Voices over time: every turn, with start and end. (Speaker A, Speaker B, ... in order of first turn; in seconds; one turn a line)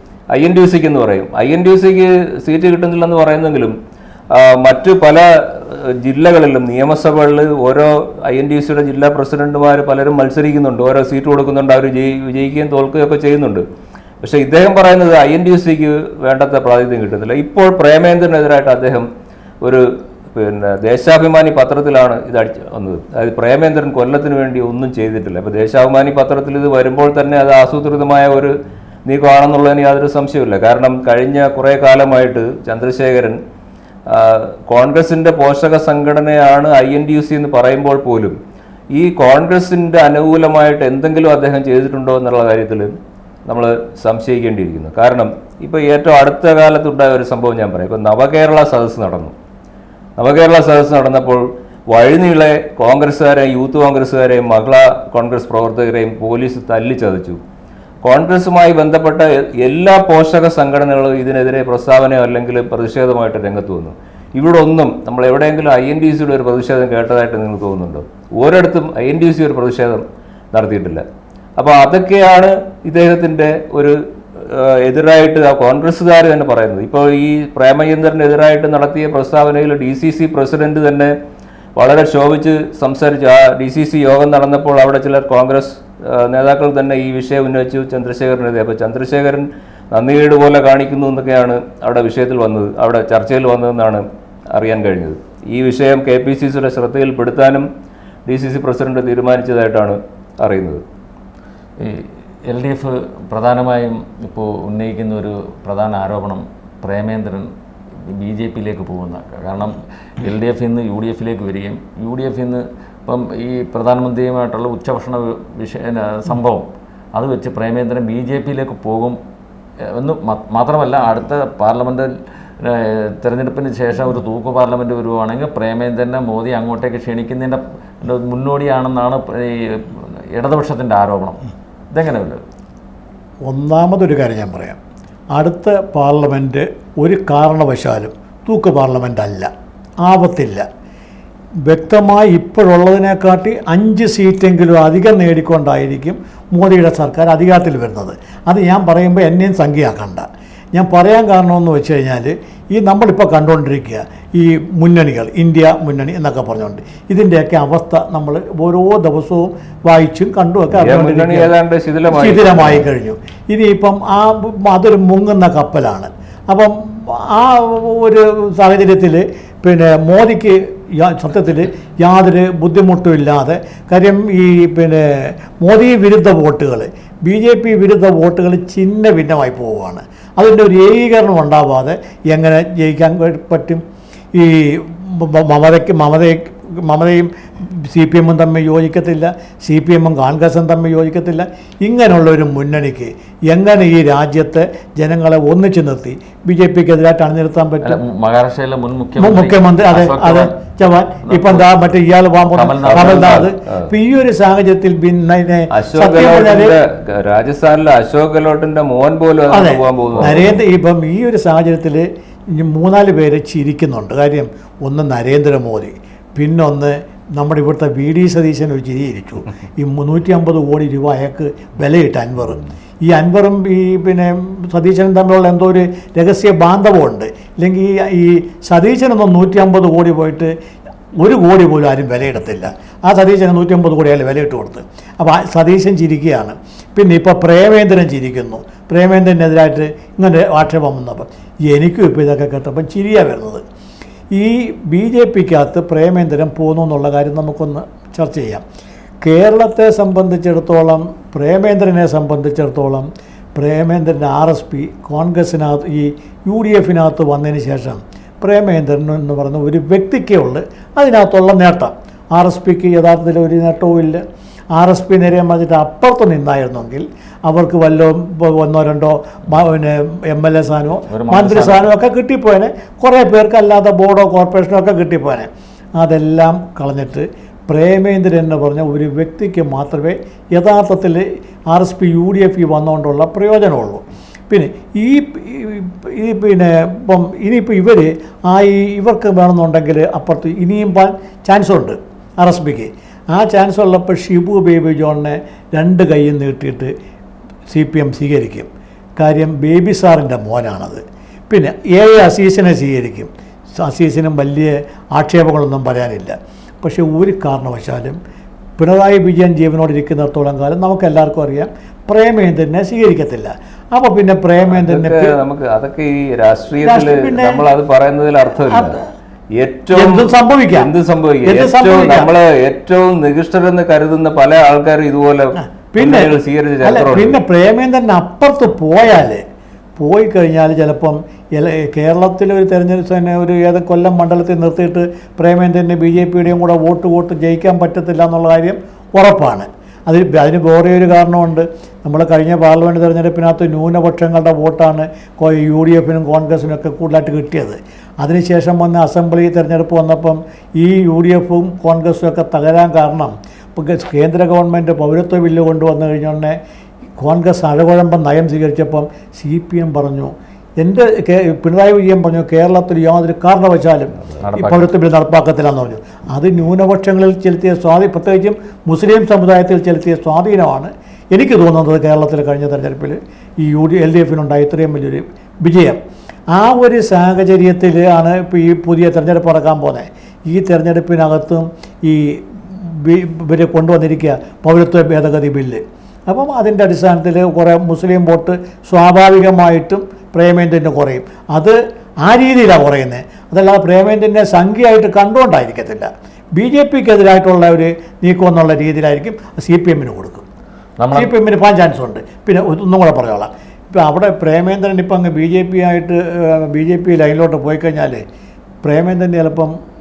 Speaker A: 0.3-3.8
Speaker A: 4.3-13.7
Speaker A: 14.2-19.1
Speaker A: 19.6-28.6
Speaker A: 29.1-33.4
Speaker A: 34.1-38.4
Speaker A: 38.9-42.9
Speaker A: 43.5-49.3
Speaker A: 50.2-57.4
Speaker A: 58.0-71.0
Speaker A: 71.6-81.1
Speaker A: 81.8-97.7
Speaker A: 98.3-100.8
Speaker B: 101.8-119.2
Speaker B: 119.9-132.4
Speaker C: 133.5-134.8
Speaker C: 135.3-139.5
Speaker C: 140.0-140.7
Speaker C: 141.7-161.5
Speaker A: 160.8-162.9
Speaker C: 162.1-198.0
Speaker B: 197.8-200.7
Speaker C: 199.2-206.8
Speaker B: 201.2-201.7
Speaker B: 202.5-203.5
Speaker A: 203.0-203.9
Speaker A: 205.8-210.6
Speaker C: 209.5-230.5
Speaker B: 210.2-210.6
Speaker C: 231.2-243.6
Speaker C: 244.3-248.7
Speaker C: 249.2-296.9
Speaker B: 271.1-271.9
Speaker C: 297.7-308.2
Speaker C: 308.8-315.4
Speaker A: 314.7-319.0
Speaker C: 316.8-317.7
Speaker C: 318.6-319.0
Speaker A: 319.6-327.4
Speaker C: 319.9-320.9
Speaker C: 321.4-322.3
Speaker C: 325.9-329.4
Speaker C: 330.0-356.6
Speaker C: 357.2-376.0
Speaker B: 364.4-364.9
Speaker C: 376.5-400.4
Speaker B: 401.0-401.3
Speaker C: 401.1-408.2
Speaker C: 408.8-409.8